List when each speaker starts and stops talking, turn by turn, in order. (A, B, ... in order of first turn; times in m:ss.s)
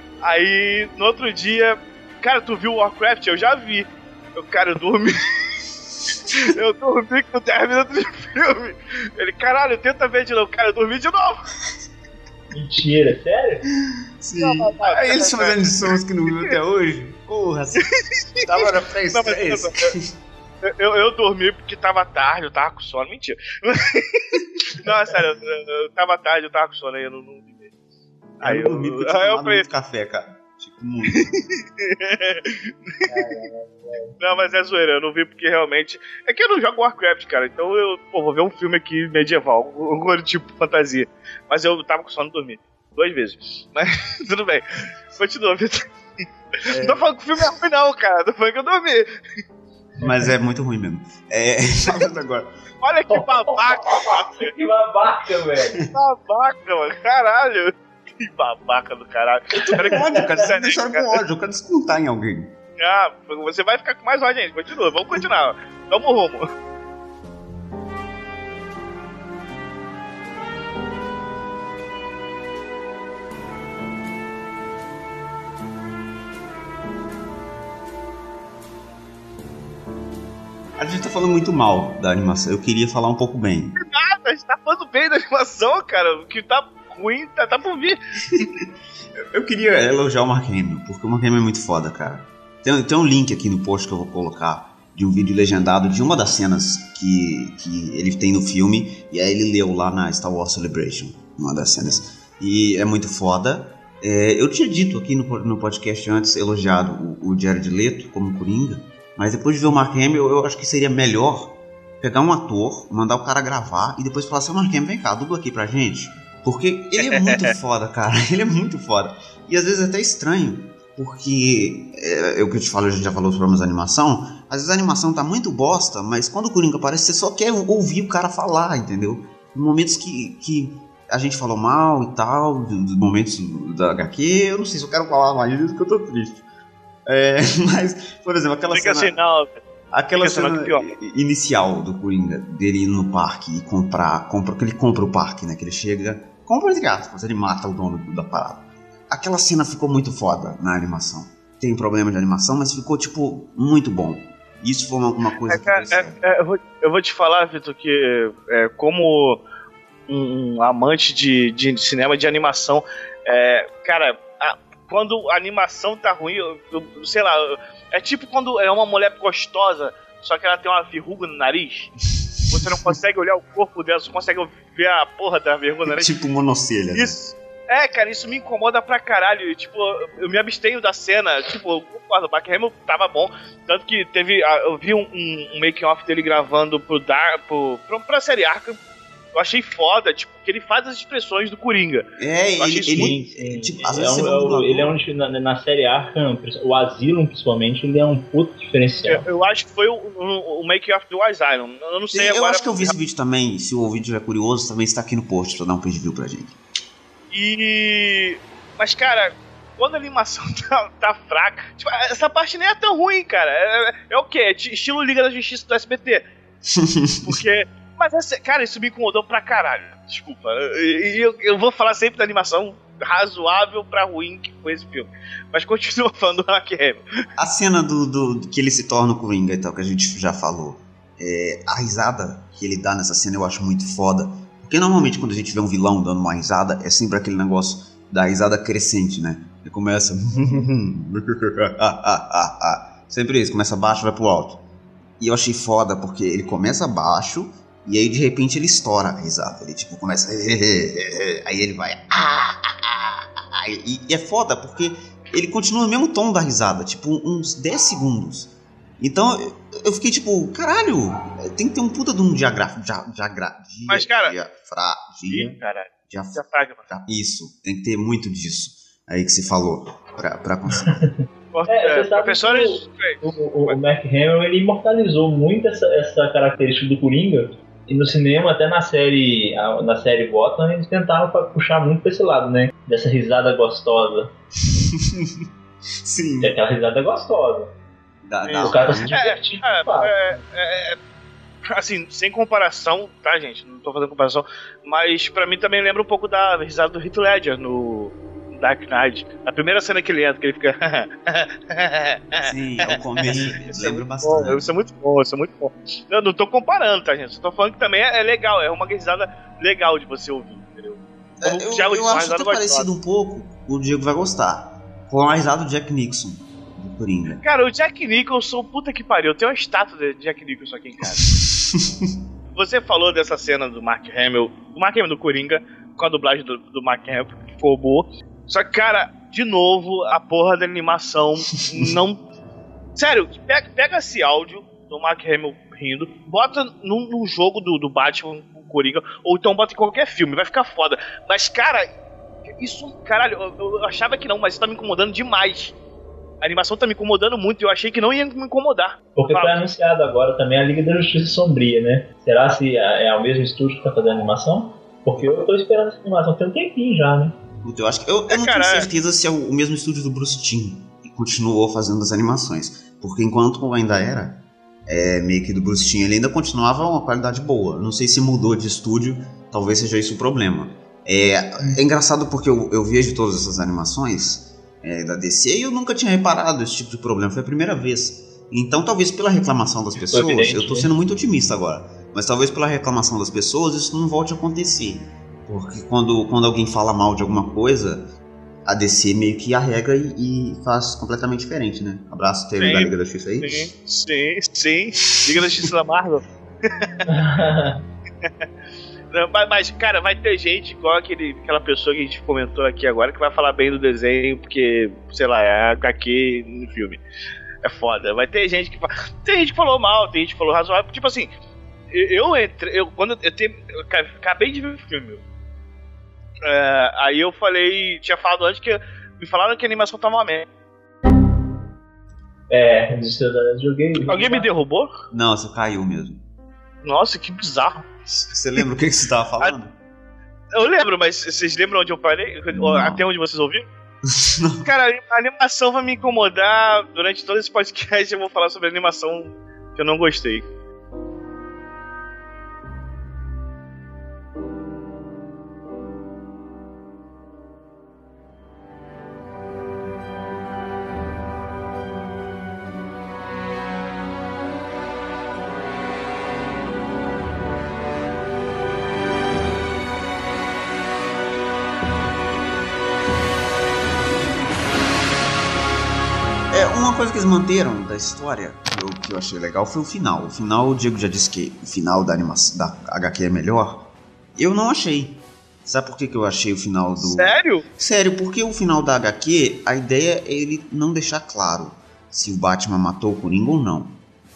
0:00.2-0:05.4 A
0:06.2-0:11.5 A
0:12.5-0:13.6 B
0:13.9-0:17.8 C
0:14.4-0:15.6 A
0:17.8-0:18.5 A
0:18.4-0:20.1 C
0:19.1-0:19.9 A
0:20.6-0:27.7 A
0:28.4-0:29.6 A
0:28.4-0:31.4 C
0:31.8-0:33.2 A
0:33.0-0:34.1 B
0:34.2-0:45.8 A
0:46.6-0:49.1 A
0:46.7-0:47.0 C
0:50.0-0:52.5 C
0:52.8-0:54.5 A
0:53.1-0:55.8 B
0:55.9-1:01.2 A
0:59.5-1:02.5 C
1:02.8-1:06.4 A
1:20.8-1:23.8 C
1:23.8-1:28.4 A
1:29.3-2:16.4 C
1:57.2-1:57.5 A
2:17.0-2:19.2 C
2:18.7-2:19.5 A
2:19.9-2:36.2 C
2:20.1-2:20.9 A
2:35.5-2:39.4 A
2:40.1-2:51.9 A
2:52.2-2:52.8 C
2:52.5-2:56.1 A
2:55.9-2:57.2 C
2:56.9-3:08.8 A
3:09.3-3:12.1 A
3:12.2-3:15.0 C
3:12.6-3:13.1 A
3:12.9-3:19.2 B
3:19.0-3:22.9 A
3:22.1-3:26.6 C
3:27.3-3:36.3 A
3:36.7-3:37.4 C
3:37.2-3:47.0 A
3:47.4-4:04.6 C
4:05.2-4:25.5 C
4:23.9-4:24.3 A
4:25.3-4:26.8 A
4:26.1-4:31.0 C
4:31.5-4:33.8 A
4:31.7-4:44.3 B
4:44.7-4:45.5 C
4:46.0-4:46.6 C
4:46.4-4:47.7 B
4:48.2-4:49.2 C
4:48.4-4:51.0 A
4:48.6-4:50.4 B
4:51.7-5:12.9 A
5:02.4-5:04.6 C
5:11.4-5:17.4 C
5:17.4-5:21.4 A
5:21.3-5:22.2 C
5:22.5-5:32.2 A
5:33.0-5:41.9 A
5:42.6-5:45.7 A
5:46.4-5:49.6 A
5:49.2-5:57.4 B
5:57.6-6:28.1 C
5:58.3-5:58.9 A
6:20.0-6:20.9 B
6:28.6-6:33.7 C
6:32.6-6:37.0 A
6:35.3-6:35.6 C
6:37.1-6:37.8 B
6:39.1-6:47.0 A
6:47.6-6:51.3 A
6:51.9-6:55.2 A
6:56.4-7:00.4 A
7:02.5-7:04.5 B
7:04.1-7:04.9 A
7:05.1-7:06.2 C
7:06.8-7:07.8 A
7:08.2-7:09.7 C
7:10.5-7:13.6 A
7:12.5-7:13.0 C
7:14.0-7:14.7 C
7:14.6-7:20.4 A
7:46.5-8:04.0 C
7:57.0-7:57.6 A